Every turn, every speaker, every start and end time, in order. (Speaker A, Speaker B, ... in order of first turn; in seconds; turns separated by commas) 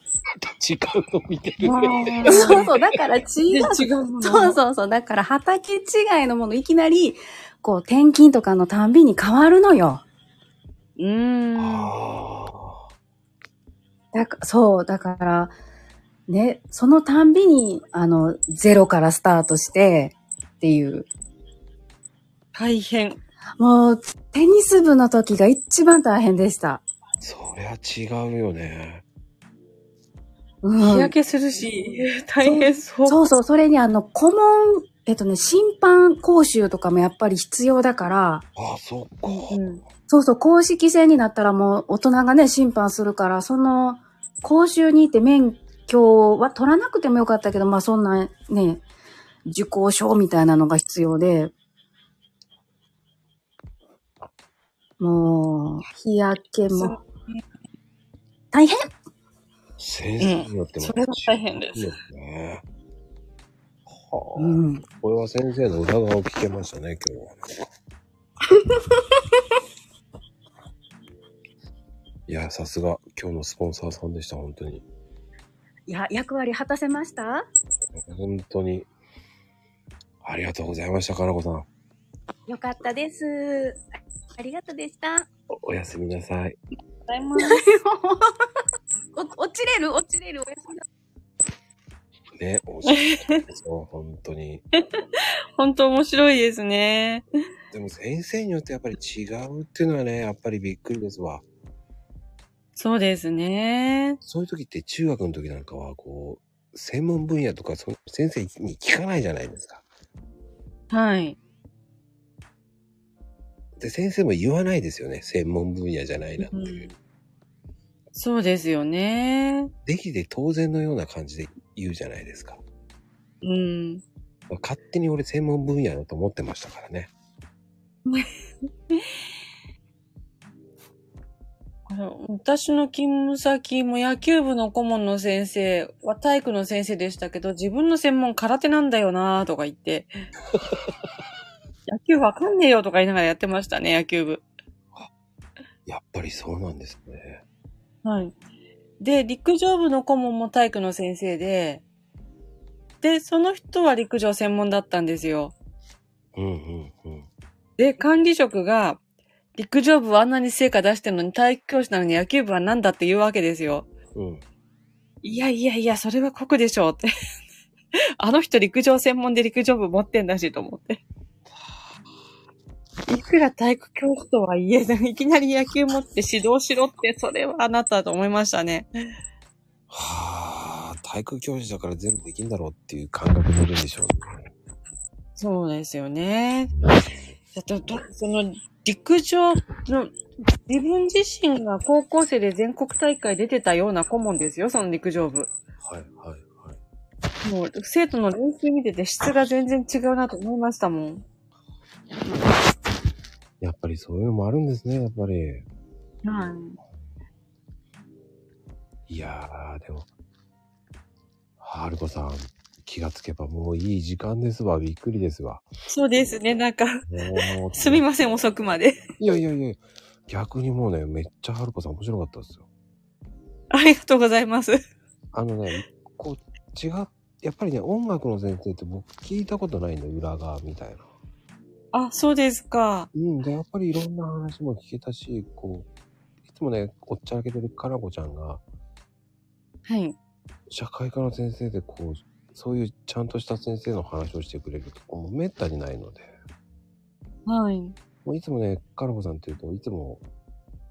Speaker A: 0.4-3.0, Speaker B: 1.6-2.6, Speaker C: 2.2-10.0, Speaker B: 3.5-4.6, Speaker B: 11.0-11.9, Speaker A: 11.6-12.8, Speaker C: 14.1-15.5, Speaker C: 16.3-21.1, Speaker B: 22.5-23.2, Speaker C: 23.6-26.8, Speaker A: 27.2-29.0, Speaker C: 30.6-31.1, Speaker B: 30.8-33.2, Speaker C: 32.4-38.5, Speaker A: 38.6-39.6, Speaker B: 39.3-39.8, Speaker C: 40.1-48.8, Speaker C: 49.5-51.5, Speaker C: 55.0-57.0, Speaker B: 56.7-57.4, Speaker C: 58.5-58.9, Speaker A: 59.8-62.6, Speaker B: 60.2-61.9, Speaker A: 63.9-67.4, Speaker C: 64.4-64.8, Speaker C: 68.5-69.2, Speaker A: 72.3-74.8, Speaker C: 75.9-77.4, Speaker A: 77.9-78.9, Speaker A: 80.2-81.7, Speaker C: 82.5-83.8, Speaker C: 84.3-85.3, Speaker A: 85.5-86.6, Speaker B: 87.1-87.6, Speaker C: 87.4-88.2, Speaker C: 89.1-90.8, Speaker A: 92.3-94.6, Speaker B: 92.9-93.4, Speaker B: 95.6-97.2, Speaker A: 97.7-101.4, Speaker B: 102.8-104.2, Speaker A: 104.2-109.8, Speaker B: 110.9-111.4, Speaker A: 113.8-116.9, Speaker B: 116.4-116.9, Speaker B: 118.1-119.7, Speaker A: 119.8-122.6, Speaker B: 123.4-124.0, Speaker A: 124.5-127.1, Speaker B: 131.9-140.1, Speaker A: 140.5-140.9, Speaker B: 141.9-144.4, Speaker A: 145.8-147.4, Speaker B: 148.0-148.3, Speaker B: 149.0-151.8, Speaker B: 153.0-155.5, Speaker A: 156.3-157.3, Speaker B: 157.8-159.0, Speaker B: 159.6-163.9, Speaker A: 164.1-164.4, Speaker B: 165.2-167.1, Speaker B: 168.2-171.0, Speaker B: 173.1-178.9, Speaker A: 179.9-184.4, Speaker B: 185.4-186.7, Speaker A: 186.8-187.3, Speaker B: 187.5-190.2, Speaker B: 190.7-195.5, Speaker A: 195.8-196.8, Speaker B: 197.4-201.2, Speaker A: 203.6-205.7, Speaker B: 206.2-206.8, Speaker A: 209.1-210.1, Speaker A: 211.6-215.6, Speaker B: 215.9-219.1, Speaker A: 217.1-218.0, Speaker A: 219.2-222.7, Speaker B: 223.7-224.8, Speaker A: 225.3-231.1, Speaker B: 231.9-233.1, Speaker A: 233.1-235.9, Speaker A: 236.5-238.6, Speaker B: 239.8-240.2, Speaker A: 240.7-246.3, Speaker B: 247.4-247.9, Speaker A: 248.2-250.2